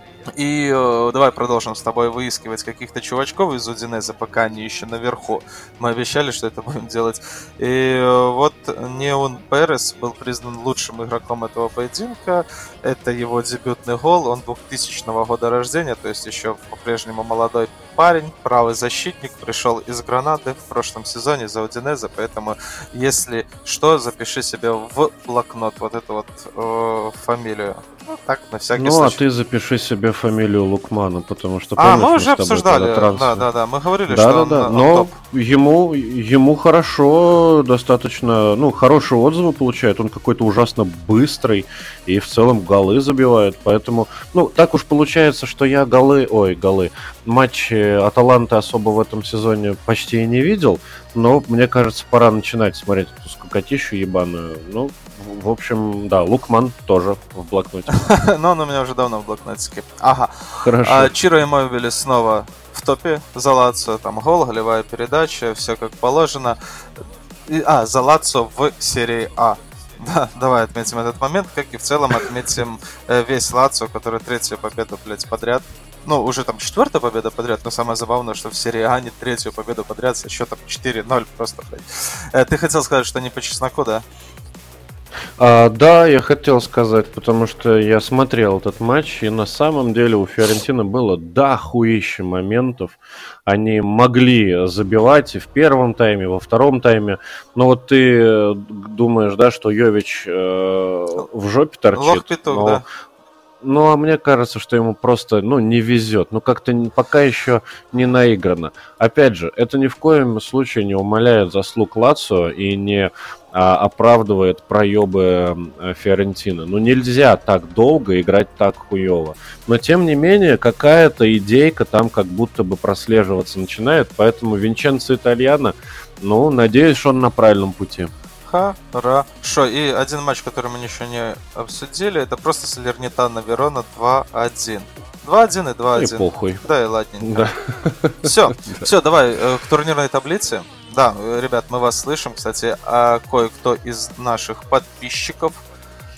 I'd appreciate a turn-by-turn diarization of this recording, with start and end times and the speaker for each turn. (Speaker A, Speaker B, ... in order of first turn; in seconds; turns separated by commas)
Speaker A: 0.4-29.2, Speaker B: 28.7-33.5, Speaker A: 31.8-35.1, Speaker B: 34.1-58.1, Speaker A: 57.9-66.6, Speaker B: 60.6-61.1, Speaker A: 67.5-84.0, Speaker B: 85.4-102.8, Speaker A: 101.9-102.8, Speaker B: 103.6-128.1, Speaker A: 128.5-137.5, Speaker B: 136.0-136.7, Speaker B: 137.2-138.9, Speaker A: 138.2-145.6